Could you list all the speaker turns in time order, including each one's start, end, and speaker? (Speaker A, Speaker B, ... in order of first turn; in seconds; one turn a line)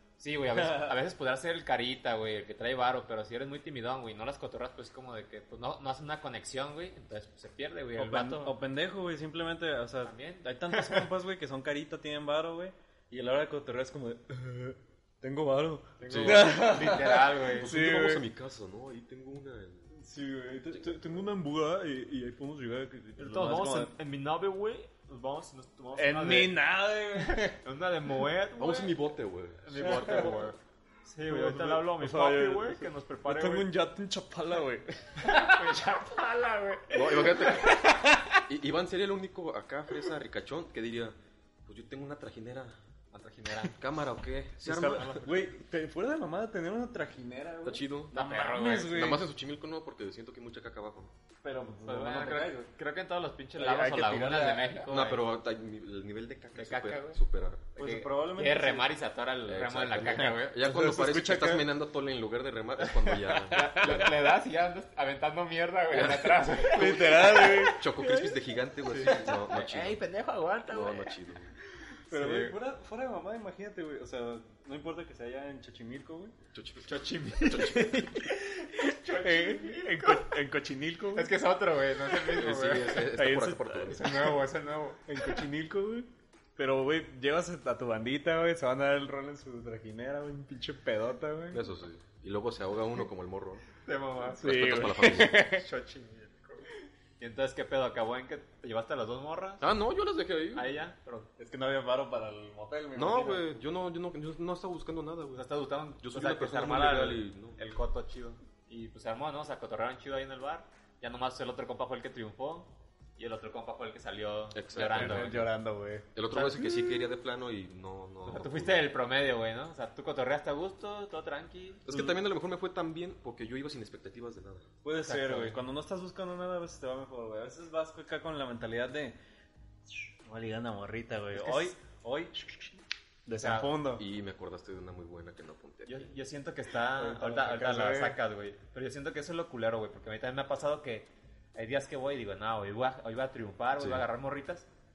Speaker A: 0.2-8.5
Speaker B: 0.5-1.0
Speaker B: 8.0-18.2
Speaker A: 10.0-11.1
Speaker A: 16.0-17.7
Speaker C: 16.1-19.9
Speaker B: 19.9-23.9
Speaker C: 20.7-21.2
Speaker A: 23.2-26.6
Speaker B: 25.9-27.6
Speaker A: 27.1-29.0
Speaker C: 28.6-30.4
Speaker A: 29.6-33.7
Speaker B: 29.8-30.5
Speaker B: 31.2-35.4
Speaker A: 35.2-37.5
Speaker C: 36.9-37.9
Speaker B: 37.2-38.4
Speaker C: 38.5-42.8
Speaker A: 43.1-43.7
Speaker C: 43.7-45.3
Speaker B: 44.6-49.2
Speaker C: 47.6-48.1
Speaker A: 48.1-49.2
Speaker C: 48.9-51.1
Speaker B: 51.4-52.7
Speaker A: 51.9-55.2
Speaker B: 53.6-54.8
Speaker C: 54.9-57.7
Speaker A: 56.5-57.2
Speaker B: 57.8-58.9
Speaker A: 57.8-60.5
Speaker C: 59.5-64.2
Speaker B: 60.6-61.7
Speaker A: 63.0-68.3
Speaker B: 63.5-63.9
Speaker C: 65.9-70.0
Speaker B: 66.6-67.9
Speaker A: 68.9-71.2
Speaker C: 70.7-71.5
Speaker A: 72.1-72.5
Speaker B: 72.1-76.3
Speaker C: 76.5-78.1
Speaker A: 76.8-80.4
Speaker B: 77.4-81.3
Speaker A: 81.1-83.0
Speaker C: 82.2-84.4
Speaker B: 83.1-84.4
Speaker A: 83.9-85.4
Speaker B: 85.0-91.6
Speaker C: 91.5-93.7
Speaker A: 93.8-96.7
Speaker C: 94.4-95.5
Speaker B: 94.4-95.6
Speaker A: 97.2-99.6
Speaker C: 99.6-100.7
Speaker A: 100.5-101.3
Speaker B: 101.4-103.6
Speaker C: 102.9-105.5
Speaker A: 105.3-115.4
Speaker C: 106.0-107.6
Speaker C: 114.5-115.4
Speaker B: 114.8-116.1
Speaker C: 116.1-118.8
Speaker A: 116.3-116.7
Speaker A: 118.3-121.9
Speaker C: 121.8-124.7
Speaker B: 124.8-129.2
Speaker A: 125.0-125.6
Speaker B: 130.2-134.0
Speaker A: 131.3-131.7
Speaker A: 133.4-133.8
Speaker C: 134.0-136.1
Speaker A: 135.9-144.7
Speaker B: 136.9-138.2
Speaker C: 143.8-144.1